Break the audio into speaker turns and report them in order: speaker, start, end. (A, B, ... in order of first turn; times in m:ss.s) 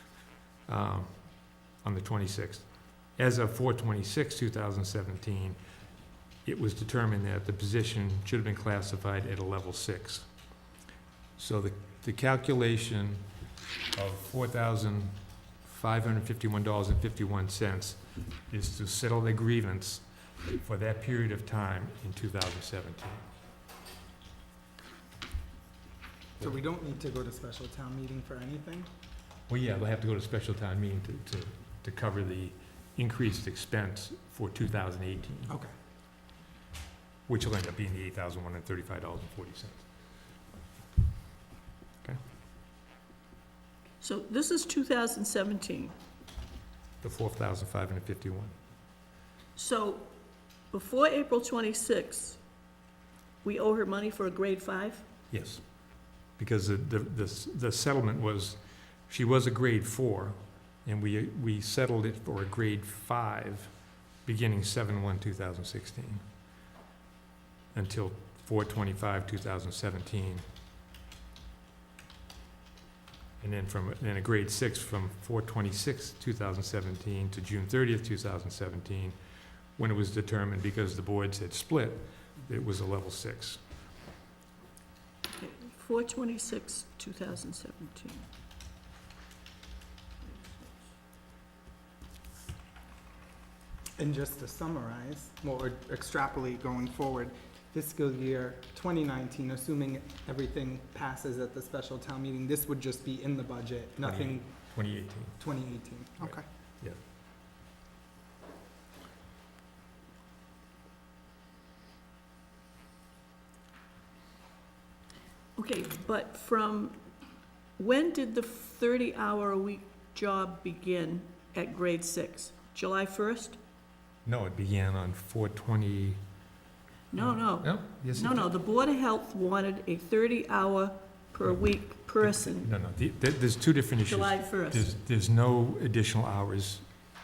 0:00.7-0:05.6 A
0:06.4-0:10.3 A
0:11.4-0:13.2 A
0:13.9-0:23.2 A
0:26.4-0:28.9 B
0:29.5-0:35.5 A
0:37.3-0:39.9 A
0:44.0-0:46.0 C
0:47.0-0:48.5 A
0:49.6-0:50.1 C
0:50.7-0:52.4 C
0:53.4-0:55.0 C
0:55.3-0:55.6 A
0:56.4-1:03.7 A
1:04.2-1:06.2 A
1:07.7-1:10.4 A
1:13.4-1:19.2 A
1:19.8-1:23.6 A
1:25.4-1:28.2 C
1:34.0-1:44.5 B
1:44.0-1:45.4 A
1:45.4-1:46.4 B
1:46.2-1:47.0 A
1:55.6-1:57.0 C
1:57.8-2:03.6 C
2:04.2-2:06.2 A
2:07.1-2:12.7 C
2:07.2-2:08.5 A
2:12.2-2:16.9 A
2:14.1-2:14.9 C